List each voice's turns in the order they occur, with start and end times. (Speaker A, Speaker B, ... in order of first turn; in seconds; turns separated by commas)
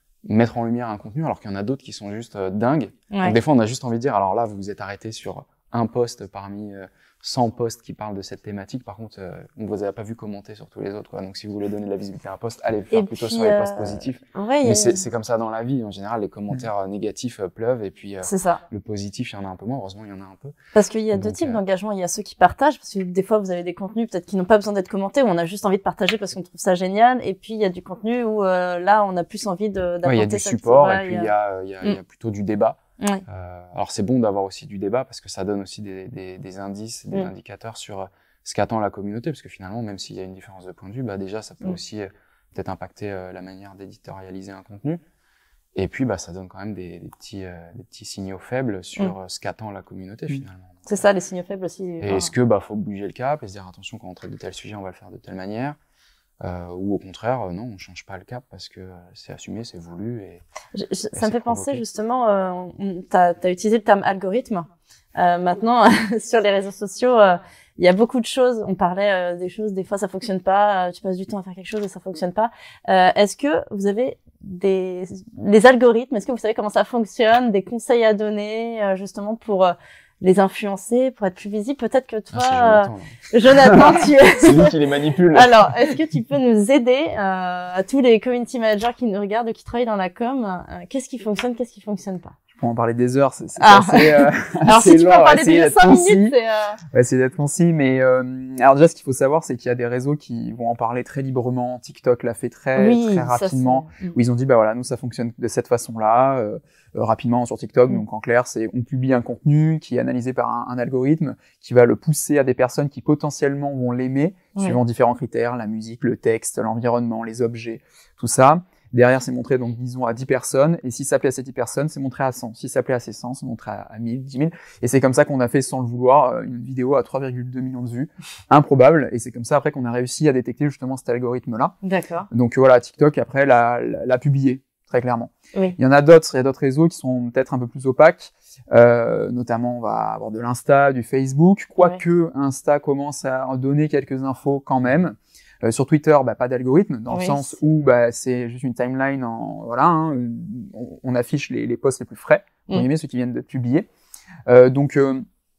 Speaker A: 0.2-20.5, Speaker B: 3.1-3.4, Speaker B: 12.9-15.0, Speaker B: 18.2-18.6, Speaker B: 20.7-31.3, Speaker A: 21.1-21.6, Speaker A: 30.1-45.0, Speaker A: 45.8-50.9, Speaker B: 50.9-52.3, Speaker A: 52.0-55.8, Speaker A: 56.4-60.4, Speaker B: 60.8-84.8, Speaker A: 61.1-61.8, Speaker A: 82.3-85.6, Speaker B: 85.3-92.3, Speaker C: 92.5-96.4, Speaker B: 93.6-96.8, Speaker C: 96.9-131.8, Speaker B: 102.8-104.2, Speaker B: 131.8-132.3, Speaker C: 132.3-153.9, Speaker B: 147.1-147.5, Speaker C: 154.5-155.2